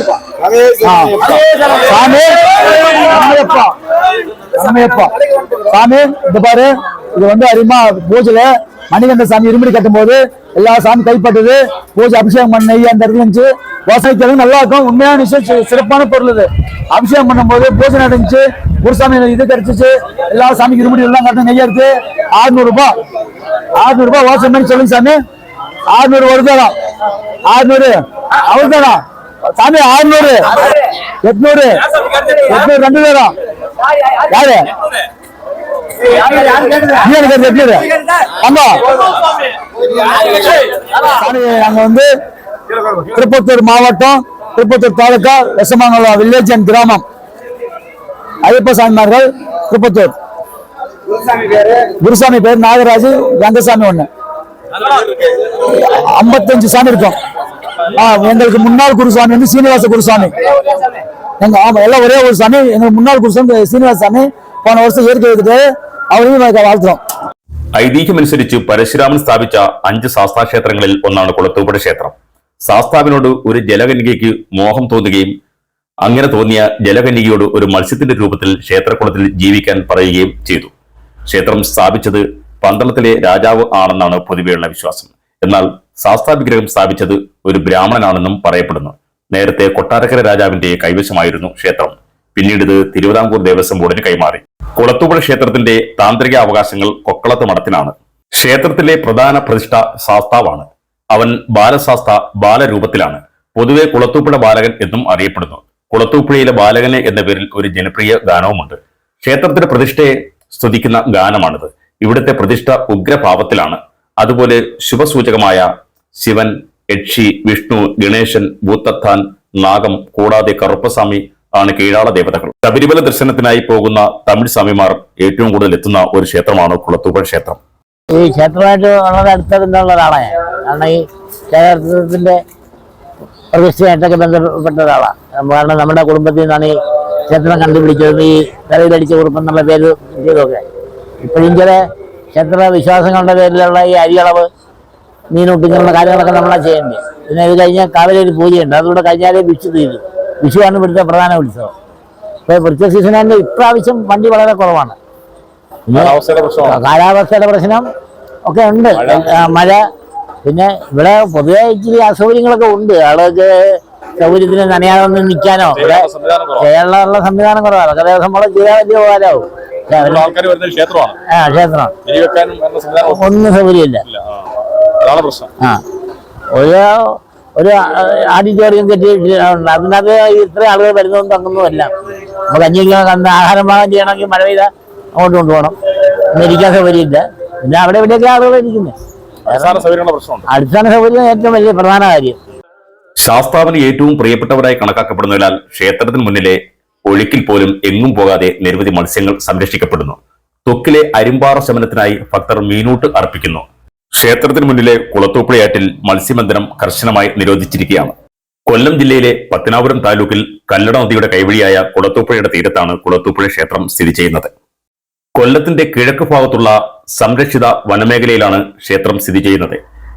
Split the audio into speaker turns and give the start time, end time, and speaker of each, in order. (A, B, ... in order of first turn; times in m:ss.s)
0:00.6-0:03.7 A
0:04.5-0:05.1 A
0:05.7-0:22.9 A
0:23.8-0:25.2 A
0:25.9-0:26.7 A
0:27.5-0:29.0 A
0:29.6-0:30.5 A
0:31.2-0:33.3 A
0:34.3-0:34.6 A
0:36.3-0:38.8 A
0:41.0-0:42.1 A
0:43.1-0:47.0 A
0:48.4-0:50.1 A
0:51.8-0:54.1 A
0:55.4-0:57.2 A
0:57.9-1:00.3 A
1:01.4-1:07.0 A
1:07.8-1:12.1 B
1:12.6-1:15.3 B
1:16.0-1:20.7 B
1:21.3-1:55.7 B
1:56.2-2:07.6 B
2:08.1-2:11.0 C
2:11.5-2:12.4 C
2:13.5-2:16.7 C
2:17.3-2:20.6 C
2:21.2-2:21.8 C
2:22.3-2:24.4 C
2:25.3-2:31.7 C
2:32.5-2:35.0 C
2:35.9-2:37.8 C
2:35.9-2:36.8 D
2:38.5-2:39.8 C
2:38.9-2:39.7 D
2:40.4-2:43.5 C
2:44.2-2:46.0 C
2:45.7-2:46.7 D
2:46.6-2:50.3 C
2:50.0-2:51.2 D
2:51.3-2:51.9 C
2:52.0-2:53.3 D
2:53.0-2:54.0 C
2:54.0-2:54.4 D
2:55.0-2:55.5 D
2:56.5-3:01.9 C
3:02.5-3:05.8 C
3:06.3-3:08.9 C
3:09.4-3:10.5 D
3:09.5-3:09.8 C
3:10.5-3:12.4 C
3:13.2-3:28.2 B
3:28.7-3:34.5 B
3:35.4-3:39.8 B